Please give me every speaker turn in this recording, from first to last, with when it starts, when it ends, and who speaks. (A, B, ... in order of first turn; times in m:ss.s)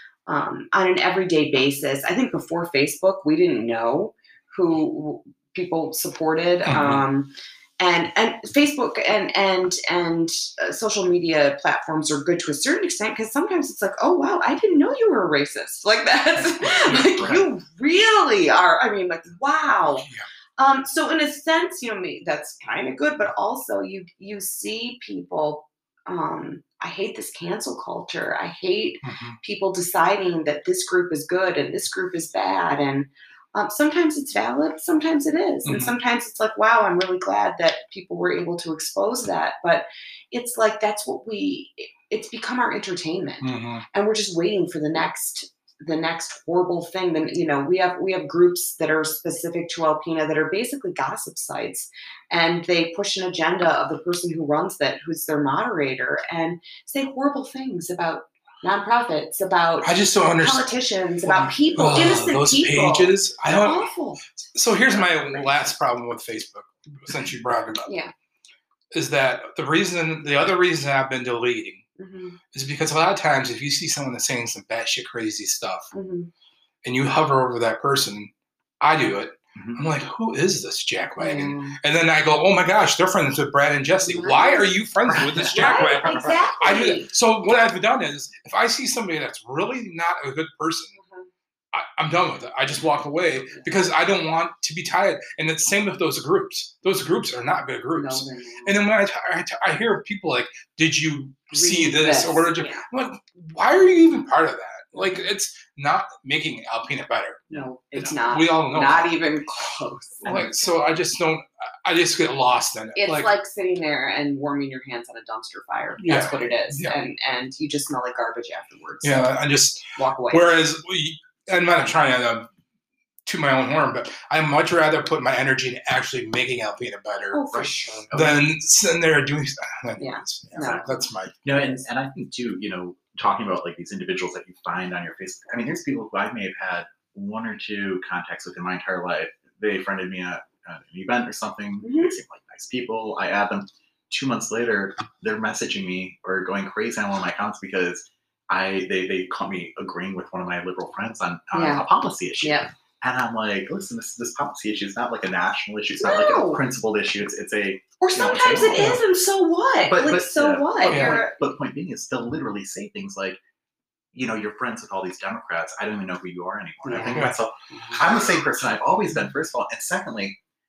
0:00.3-1:04.2 A
0:06.6-0:07.0 B
0:16.6-0:17.4 B
0:16.8-0:17.4 C
0:29.0-0:29.4 B
0:35.7-0:35.9 B
0:43.4-0:43.8 B
0:59.8-1:00.7 B
1:01.2-1:03.9 B
1:04.5-1:07.9 B
1:05.0-1:05.5 A
1:07.8-1:08.1 A
1:08.9-1:11.8 B
1:12.0-1:12.4 A
1:12.5-1:15.9 B
1:15.9-1:16.3 A
1:16.8-1:30.9 B
1:19.6-1:19.8 C
1:21.2-1:21.8 A
1:24.0-1:24.7 A
1:25.1-1:26.5 C
1:25.5-1:27.1 A
1:30.9-1:31.3 A
1:31.7-1:47.4 B
1:33.5-1:33.7 A
1:37.9-1:38.9 A
1:41.5-1:42.8 A
1:44.9-1:45.2 A
1:47.5-1:48.1 C
1:47.5-1:50.3 A
1:48.3-1:49.1 B
1:50.2-1:50.5 C
1:50.2-1:53.3 B
1:53.0-1:59.3 A
1:56.0-1:57.0 B
1:59.0-2:02.5 B
2:00.0-2:00.6 A
2:03.2-2:07.4 B
2:07.3-2:08.1 A
2:07.5-2:08.4 C
2:08.1-2:11.4 B
2:10.0-2:10.9 A
2:10.5-2:10.9 C
2:11.4-2:39.0 C
2:11.5-2:11.8 A
2:21.8-2:22.2 A
2:31.5-2:31.8 A
2:32.4-2:32.7 A
2:36.0-2:36.6 A
2:38.0-2:41.4 A
2:39.9-2:43.4 C
2:40.9-2:41.2 B
2:44.1-2:50.4 C
2:46.8-2:48.0 A
2:47.1-2:47.4 B